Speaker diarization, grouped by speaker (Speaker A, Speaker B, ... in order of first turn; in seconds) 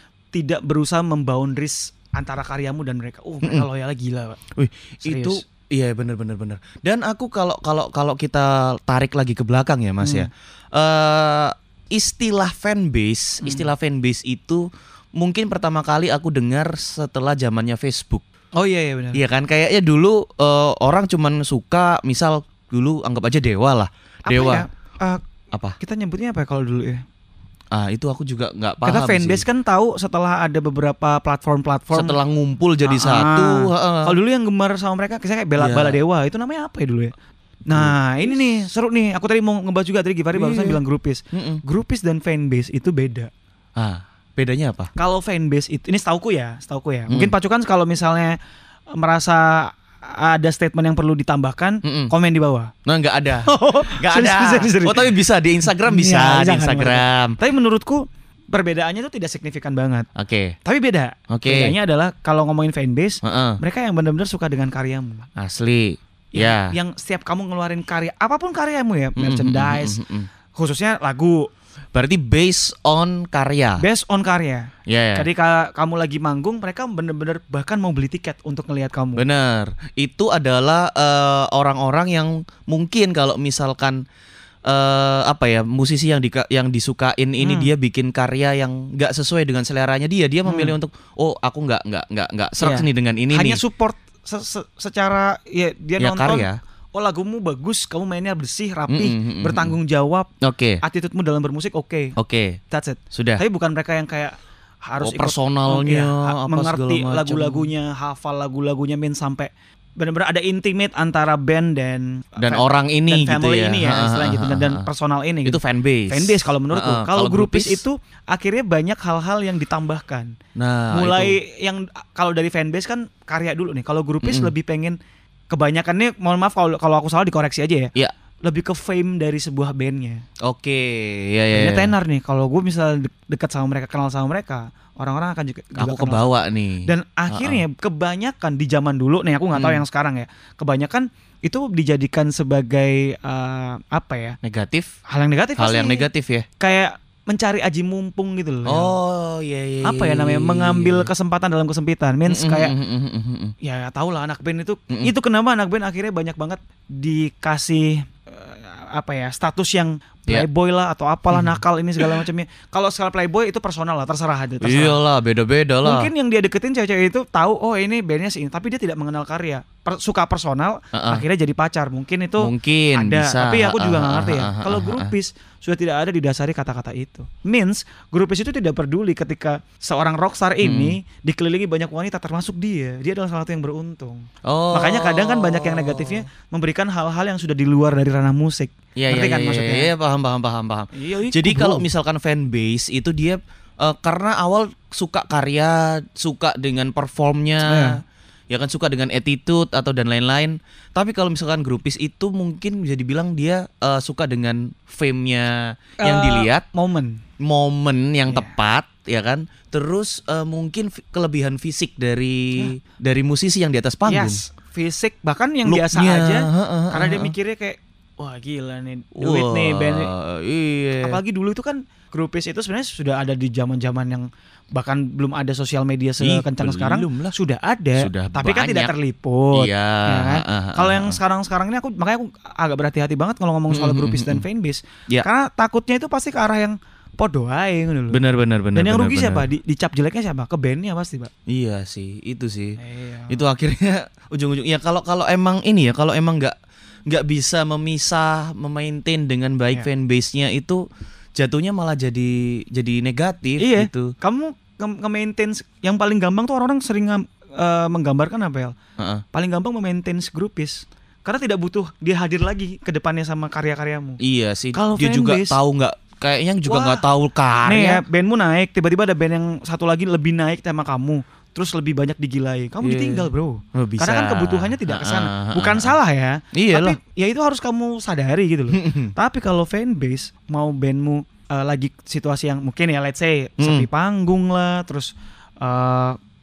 Speaker A: 0.3-4.4, 5.0-5.4, 10.0-10.3, 13.4-13.7, 18.6-19.2, 24.2-25.2, 25.8-27.0, 28.8-32.2, 32.8-37.1, 37.7-43.3, 44.9-48.4, 48.9-52.7, 53.5-60.1, 60.6-65.2, 66.3-70.0, 70.5-71.5, 73.8-79.2, 87.4-87.7, 90.5-90.8, 92.6-100.3, 100.8-102.1, 102.7-120.3, 120.9-125.0, 125.5-127.9, 128.4-130.2, 131.5-144.4, 145.1-146.1, 146.6-148.9, 149.8-152.8, 153.6-165.0, 165.8-189.9, 190.9-191.9, 197.6-198.0, 206.0-207.2, 208.3-208.5, 214.1-220.1, 221.0-238.2, 238.7-241.3, 242.8-243.4, 253.6-258.7, 259.3-264.2, 264.7-265.6, 266.6-267.0, 267.6-286.2
Speaker B: 4.5-14.7, 15.2-18.2, 19.1-24.6, 27.7-29.4, 31.9-34.2, 35.6-36.0, 40.3-40.8, 41.3-41.6, 43.8-44.9, 47.1-47.3, 51.8-52.1, 52.9-57.4, 60.1-60.5, 61.3-61.8, 63.2-63.6, 65.4-66.7, 69.2-70.3, 71.9-73.8, 74.9-75.3, 79.2-84.0, 84.7-93.6, 96.0-96.6, 98.9-99.7, 100.4-100.8, 102.2-102.6, 103.1-103.4, 105.0-107.7, 112.4-114.8, 115.5-117.8, 120.5-121.4, 124.2-124.5, 130.4-131.9, 135.8-137.6, 139.5-139.8, 144.4-144.9, 145.6-146.4, 148.7-151.1, 152.3-153.5, 161.3-162.2, 164.6-166.1, 170.9-171.2, 172.4-175.1, 180.6-181.0, 184.4-186.2, 189.0-197.9, 198.5-206.6, 207.4-214.4, 215.7-217.3, 219.1-221.2, 226.2-227.3, 228.0-228.9, 229.5-231.2, 233.7-234.4, 238.1-239.4, 241.5-246.5, 247.1-250.8, 251.3-254.1, 259.0-259.2, 264.2-268.0, 272.8-275.9, 276.5-277.0, 278.7-279.1, 283.6-283.9